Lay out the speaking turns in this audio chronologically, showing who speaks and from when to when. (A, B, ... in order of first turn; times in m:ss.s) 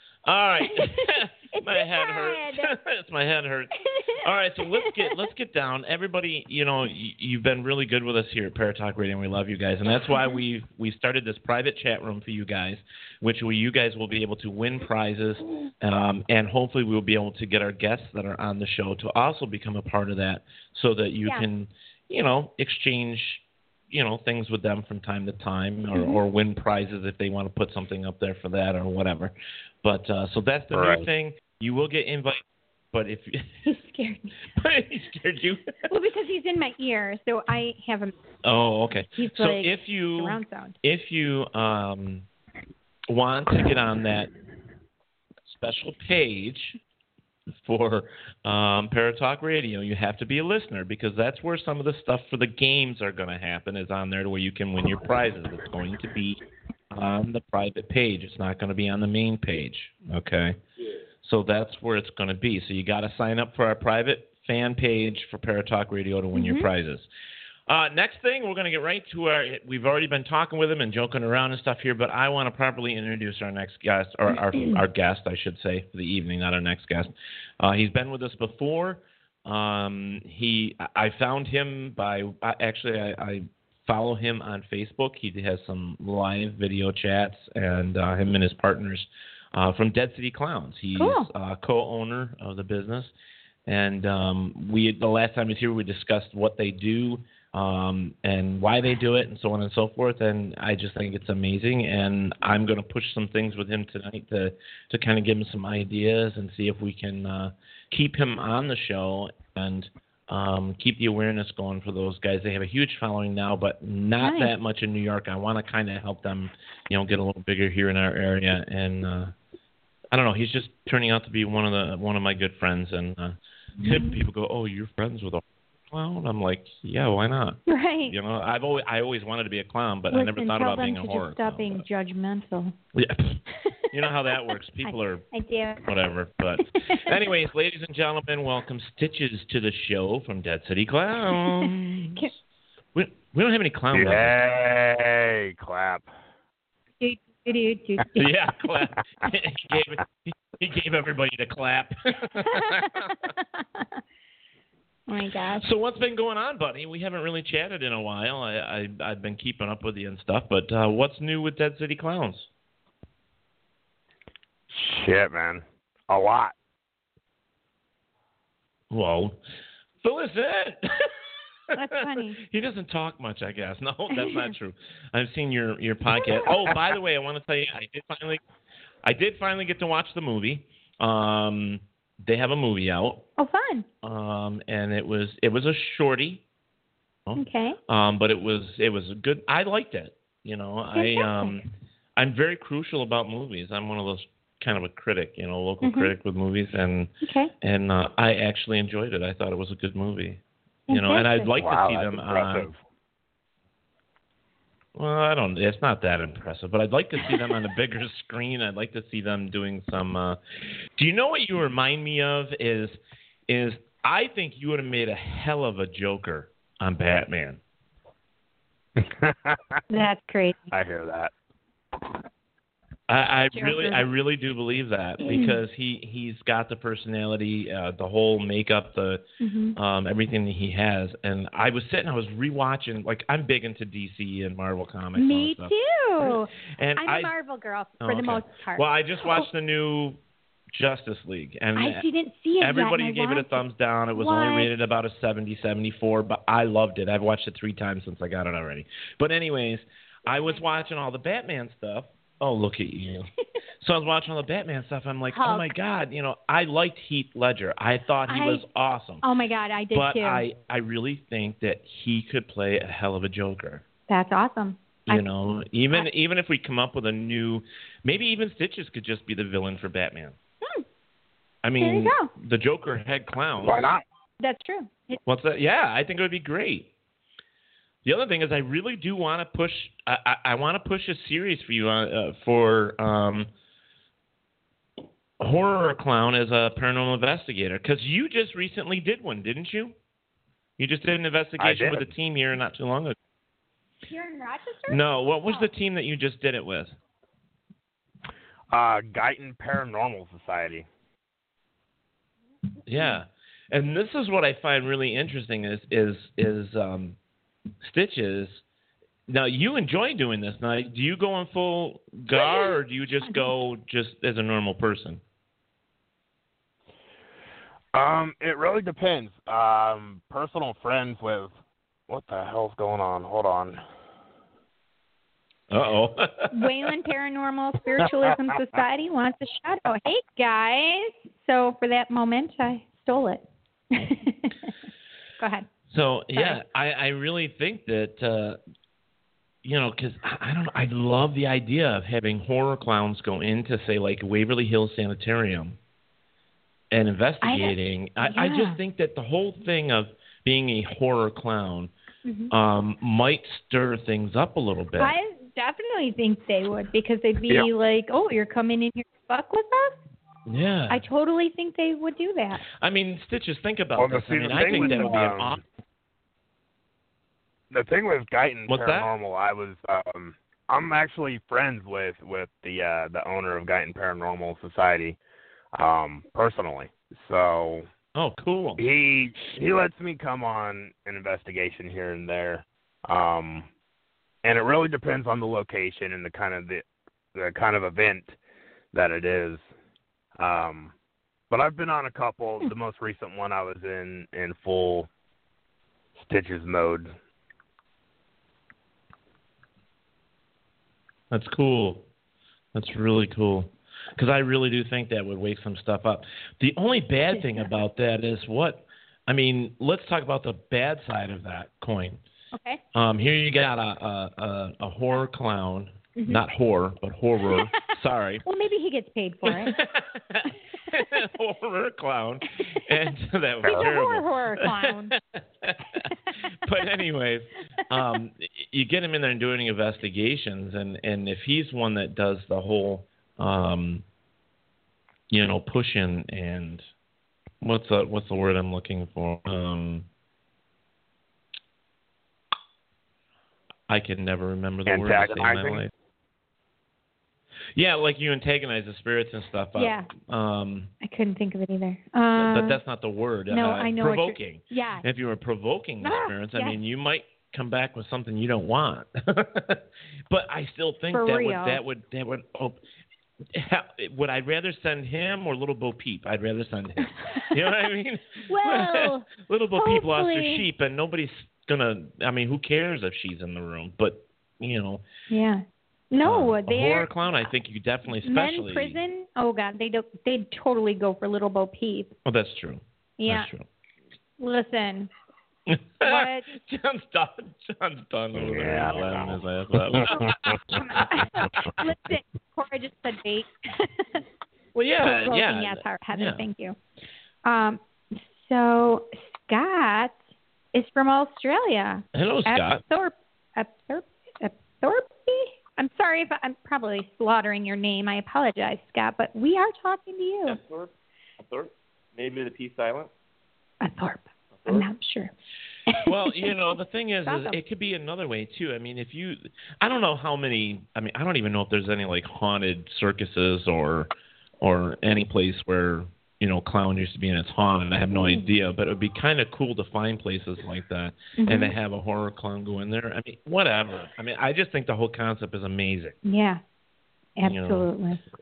0:00.2-0:33.6 A
0:00.6-0:02.7 B
0:03.8-0:05.2 B
0:10.1-0:10.4 B
0:25.9-0:26.2 B
0:30.7-0:31.1 C
0:33.6-0:34.4 B
0:34.5-0:35.7 A
0:35.9-0:38.1 B
0:38.4-0:42.3 A
0:39.2-0:40.8 B
0:43.1-0:44.3 A
0:45.4-0:46.8 A
0:47.6-1:00.6 A
1:01.2-1:07.1 A
1:06.3-1:06.7 B
1:07.7-1:33.1 A
1:14.5-1:14.8 B
1:31.0-1:31.3 B
1:33.7-1:59.3 A
1:54.2-1:54.5 B
2:00.1-2:11.8 A
2:03.8-2:04.2 B
2:07.7-2:08.1 B
2:10.1-2:12.7 B
2:12.9-2:13.4 A
2:13.9-2:15.2 A
2:14.8-2:15.9 B
2:15.8-2:22.3 A
2:16.7-2:17.1 B
2:21.4-2:22.3 B
2:22.9-2:24.4 A
2:23.9-2:26.1 C
2:27.0-2:28.3 B
2:28.1-2:32.9 A
2:32.4-2:34.0 B
2:35.1-2:35.6 B
2:35.6-2:42.5 A
2:44.7-2:46.5 C
2:48.9-2:49.4 A
2:50.0-2:51.1 A
2:51.7-2:52.4 B
2:52.1-2:58.4 A
2:54.1-2:54.4 B
2:56.2-2:56.4 B
2:59.0-3:03.2 A
3:03.4-3:03.8 B
3:04.0-3:06.4 A
3:07.2-3:22.7 A
3:07.4-3:07.8 B
3:10.9-3:11.6 B
3:15.8-3:16.1 B
3:17.2-3:17.5 B
3:20.9-3:21.5 B
3:21.6-3:22.8 C
3:24.9-3:30.4 A
3:31.0-3:33.0 A
3:33.5-3:37.6 A
3:39.0-3:39.7 C
3:39.9-3:40.7 B
3:40.7-3:41.3 C
3:43.1-3:49.2 A
3:43.5-3:44.0 B
3:45.2-3:45.6 B
3:49.4-3:49.8 B
3:49.8-3:57.3 A
3:55.2-3:59.5 B
3:58.0-4:00.2 A
4:00.7-4:02.0 A
4:01.8-4:03.6 B
4:02.6-4:13.3 A
4:04.1-4:04.7 B
4:13.8-4:19.2 A
4:15.3-4:15.7 B
4:18.3-4:18.6 B
4:19.2-4:20.4 B
4:19.9-4:23.8 A
4:24.1-4:25.3 B
4:25.1-4:30.4 A
4:31.6-4:33.8 A
4:31.8-4:32.3 B
4:33.6-4:34.0 C
4:34.4-4:35.2 B
4:35.2-4:36.9 A
4:38.0-4:43.5 A
4:45.4-4:49.9 A
4:50.8-4:53.2 A
4:51.6-4:52.0 C
4:54.1-4:55.7 B
4:54.9-4:56.9 A
4:58.7-5:00.8 C
5:02.9-5:07.2 A
5:07.8-5:08.6 A
5:09.3-5:15.2 A
5:12.3-5:13.5 B
5:17.9-5:21.5 C
5:22.1-5:23.8 C
5:25.7-5:26.8 A
5:26.5-5:34.7 B
5:35.4-5:35.7 B
5:35.9-5:38.6 A
5:36.3-5:36.6 B
5:39.6-5:45.8 A
5:46.9-5:51.9 A
5:47.4-5:48.8 B
5:52.2-5:52.5 B
5:52.5-5:55.2 A
5:55.0-6:00.0 B
6:00.4-6:01.0 A
6:00.9-6:02.6 B
6:02.8-6:05.6 A
6:04.0-6:05.6 C
6:04.6-6:05.2 B
6:07.7-6:15.2 C
6:08.7-6:09.1 A
6:15.7-6:17.9 C
6:18.1-6:18.8 A
6:18.8-6:23.7 C
6:24.4-6:26.8 C
6:27.3-6:28.4 C
6:28.9-6:29.6 C
6:30.4-6:30.9 C
6:31.5-6:35.1 C
6:36.2-6:37.1 C
6:41.3-6:42.0 A
6:42.7-6:52.2 A
6:47.4-6:47.6 B
6:52.5-6:52.8 B
6:52.9-6:58.4 A
6:56.2-6:56.4 B
6:58.4-6:59.8 B
6:59.4-7:06.1 A
7:03.7-7:05.1 B
7:06.6-7:14.0 A
7:15.3-7:16.8 A
7:17.6-7:20.1 A
7:23.9-7:25.9 A
7:24.9-7:25.8 C
7:27.7-7:30.9 A
7:29.8-7:30.1 B
7:31.0-7:32.8 B
7:32.4-7:42.8 A
7:33.5-7:35.0 B
7:36.0-7:36.8 B
7:41.1-7:41.8 B
7:43.5-7:55.0 A
7:48.5-7:50.6 B
7:55.3-7:57.5 B
7:56.2-7:59.0 A
7:58.2-8:02.1 B
8:02.2-8:03.6 A
8:03.2-8:03.5 B
8:04.4-8:05.1 B
8:05.7-8:11.7 A
8:06.0-8:06.5 B
8:08.3-8:09.4 C
8:09.9-8:10.6 C
8:10.7-8:14.2 B
8:14.7-8:16.4 A
8:15.0-8:16.8 B
8:17.4-8:20.2 B
8:20.7-8:30.6 B
8:22.1-8:22.8 A
8:30.5-8:30.9 A
8:31.4-8:33.1 A
8:33.8-8:35.3 B
8:35.9-8:36.5 B
8:36.0-8:44.1 A
8:37.2-8:37.6 B
8:44.6-8:56.2 A
8:48.2-8:48.4 B
8:51.4-8:51.7 B
8:56.2-8:56.6 B
8:57.4-8:58.2 B
8:57.4-8:57.9 A